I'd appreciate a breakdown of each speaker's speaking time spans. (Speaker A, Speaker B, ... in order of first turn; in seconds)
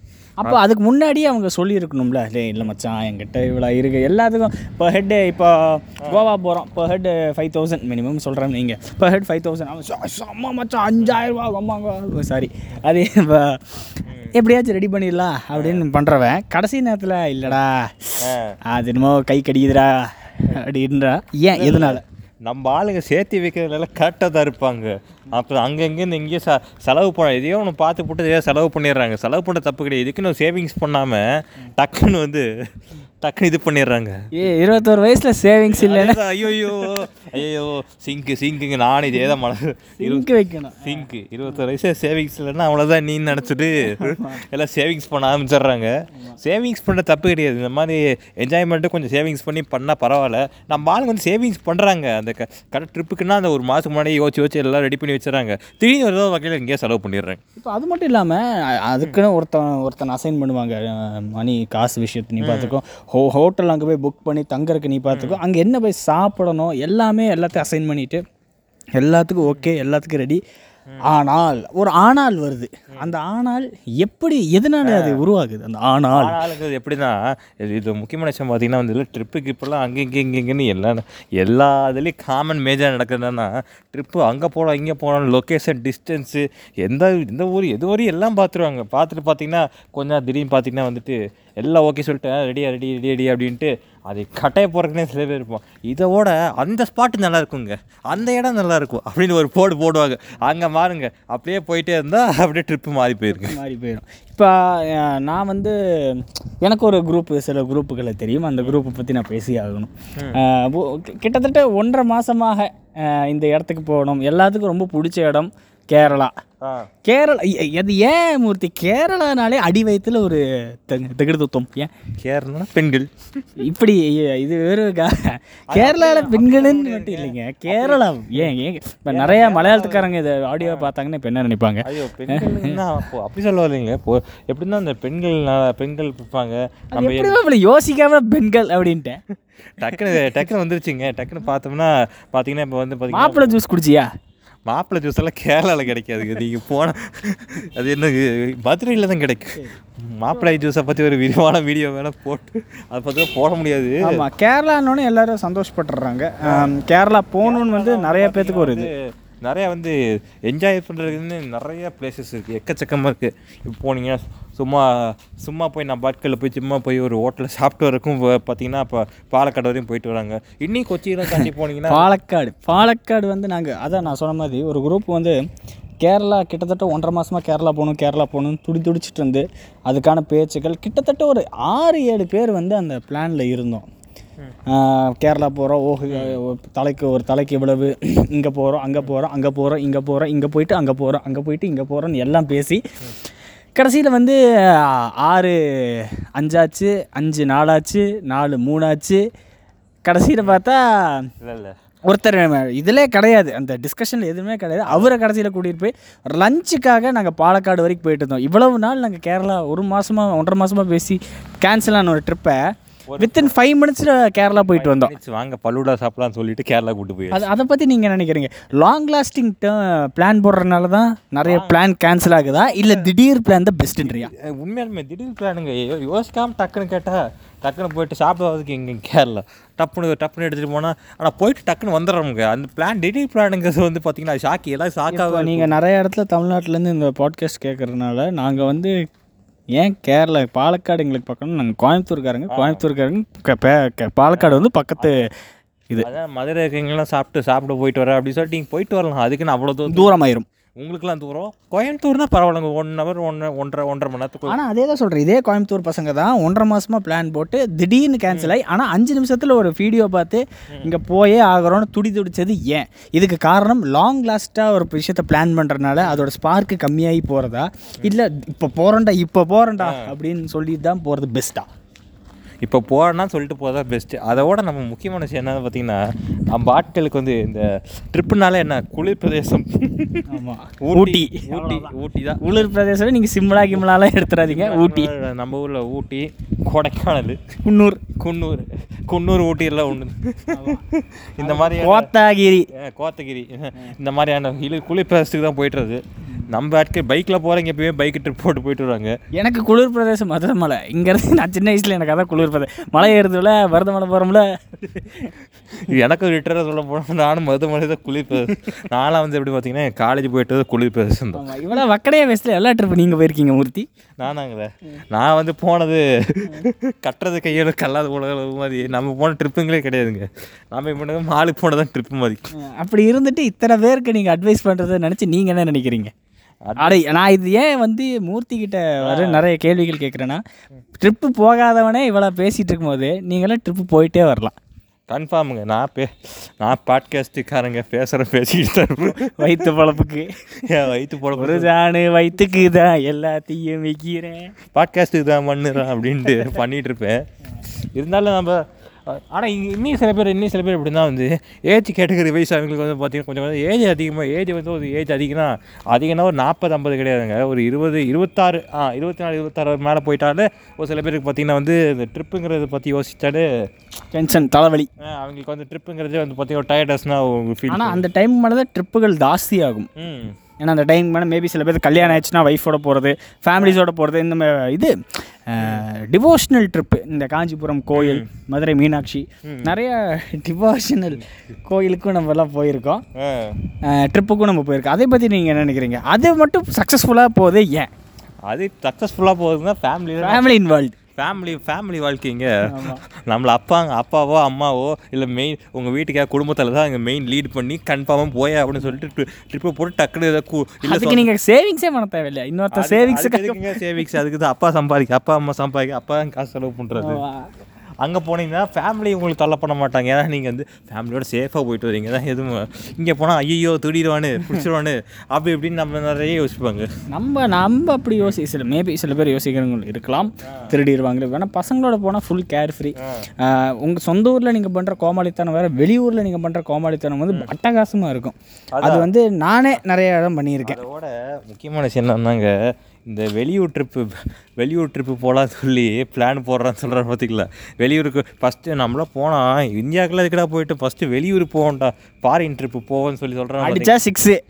Speaker A: 0.4-22.0, 34.4-37.0, 40.0-41.1, 43.9-44.4, 57.6-68.2, 69.0-70.4, 71.0-76.4, 103.3-116.3, 117.1-121.9, 123.6-132.8, 136.9-139.2, 139.8-140.4, 143.1-144.1, 154.0-158.9, 171.9-175.4, 176.0-183.8, 184.7-192.8, 193.8-199.2, 200.1-201.3, 202.1-212.6, 213.2-215.1, 217.3-224.3, 235.1-238.9, 239.8-245.3, 249.9-250.5, 254.5-271.7, 280.3-285.1, 287.6-288.0, 290.5-290.8, 291.4-292.7, 299.4-305.3, 311.3-313.9, 322.6-326.1, 326.8-330.4, 331.0-334.6, 339.2-340.5, 341.4-344.5, 364.1-364.9, 367.7-369.9, 370.6-383.0, 383.9-387.9, 390.2-391.0, 392.7-393.0, 400.8-403.8, 407.0-407.5, 417.1-430.8, 443.6-444.4
Speaker B: 14.1-14.3, 15.5-15.8, 18.2-18.5, 21.5-31.2, 31.8-32.5, 33.2-34.1, 35.7-40.3, 40.8-57.4, 62.4-62.8, 65.1-65.4, 74.8-75.2, 76.2-103.6, 116.0-116.9, 122.2-123.1, 125.7-128.5, 129.1-130.1, 130.6-130.9, 131.8-137.4, 139.8-143.6, 144.7-154.2, 156.4-156.7, 157.4-158.9, 159.4-159.9, 160.5-172.1, 186.1-186.4, 201.4-201.8, 204.9-205.1, 213.1-213.5, 214.4-217.4, 221.5-223.1, 224.0-235.7, 242.5-242.8, 244.3-245.2, 246.0-250.1, 250.8-254.6, 258.3-258.6, 272.6-276.0, 276.5-280.2, 280.8-282.7, 284.5-287.4, 288.2-292.1, 292.8-299.1, 305.8-311.4, 314.2-322.5, 326.6-327.0, 329.1-329.4, 335.1-336.1, 336.6-339.7, 340.6-341.7, 344.7-347.2, 347.9-363.5, 365.0-368.0, 370.0-370.4, 375.6-375.9, 377.9-378.3, 379.4-379.7, 383.2-383.6, 388.5-390.4, 391.2-401.3, 402.7-407.2, 408.0-416.9, 428.7-429.1, 430.6-432.5, 433.1-444.0